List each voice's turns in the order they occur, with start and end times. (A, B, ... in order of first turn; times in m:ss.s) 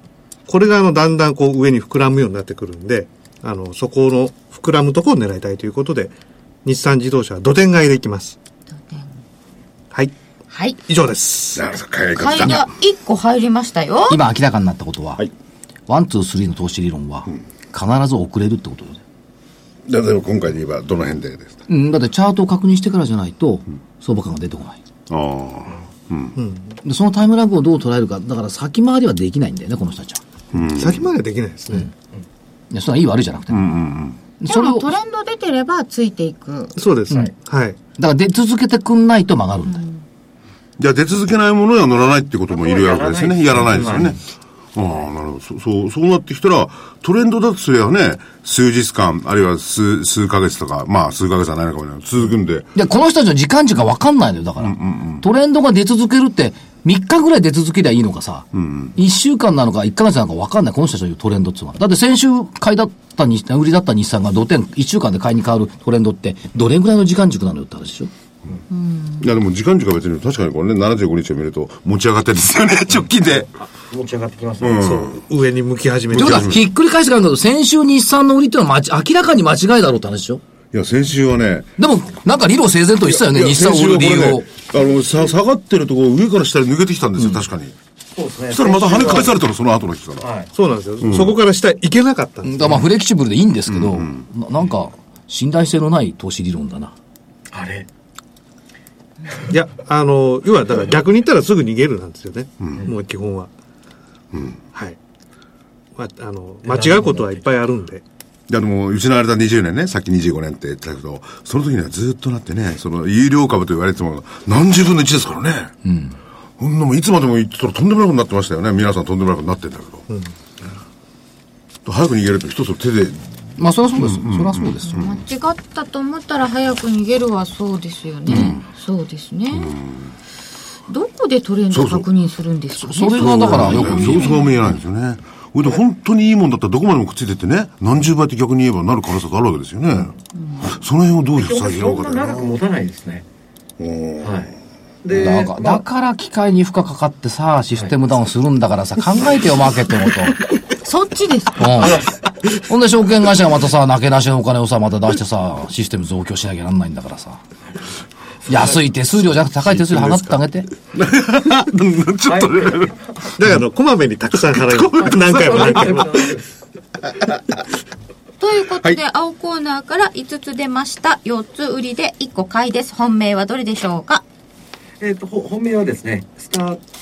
0:00.5-0:06.1 A
0:06.6-0:08.4 A
0:08.8-0:09.1 B
0:10.5-0:10.8 B
0:10.9-0:11.7 A
0:11.6-0:12.7 C
0:12.2-0:14.2 B
0:14.1-0:15.2 D
0:15.9-0:19.0 D
0:19.9-0:21.6 C
0:21.7-0:24.8 D
0:25.1-0:26.4 C
0:26.4-0:26.8 A
0:26.8-0:30.2 D
0:30.5-0:31.1 C
0:30.7-0:31.9 A
0:32.7-0:33.7 D
0:33.5-0:34.2 C
0:34.4-0:34.9 D
0:34.5-0:36.8 B
0:36.8-0:37.8 A
0:38.0-0:39.8 D
0:39.7-0:40.0 B
0:40.8-0:44.2 C
0:42.5-0:44.2 E
0:44.8-0:52.7 C
0:52.8-1:08.1 D
0:54.6-0:55.2 C
0:58.5-0:59.0 C
1:08.7-1:09.3 B
1:09.2-1:13.5 C
1:13.9-1:14.9 E
1:14.6-1:15.2 C
1:14.8-1:16.6 A
1:16.1-1:16.7 C
1:16.1-1:20.4 D
1:20.7-1:21.7 C
1:21.8-1:24.5 D
1:23.0-1:27.8 C
1:27.2-1:27.4 D
1:28.2-1:29.4 E
1:28.5-1:30.3 C
1:30.2-1:30.5 E
1:30.5-1:32.8 A
1:31.0-1:31.4 C
1:32.4-1:36.9 D
1:33.7-1:34.2 C
1:37.5-1:37.9 E
1:39.5-1:43.5 A
1:46.0-1:48.0 A
1:46.6-1:47.4 E
1:48.5-1:55.7 C
1:55.8-1:56.2 D
1:56.6-2:00.0 C
2:01.9-2:03.4 C
2:03.6-2:05.0 D
2:04.0-2:05.2 C
2:04.9-2:09.8 B
2:08.3-2:08.6 D
2:08.3-2:08.6 C
2:09.5-2:10.1 C
2:10.9-2:14.5 B
2:11.7-2:12.1 C
2:12.8-2:14.4 D
2:13.1-2:22.6 C
2:20.4-2:20.7 B
2:21.4-2:23.2 E
2:23.8-2:24.5 C
2:24.2-2:25.8 E
2:25.1-2:30.4 D
2:30.8-2:32.0 B
2:31.6-2:32.0 D
2:31.8-2:32.1 E
2:32.6-2:37.4 D
2:38.5-2:40.7 D
2:39.6-2:40.4 C
2:40.9-2:42.9 C
2:42.3-2:43.0 E
2:43.4-2:46.1 A
2:44.4-2:46.1 C
2:45.3-2:46.5 E
2:48.4-2:54.2 B
2:55.0-2:56.8 E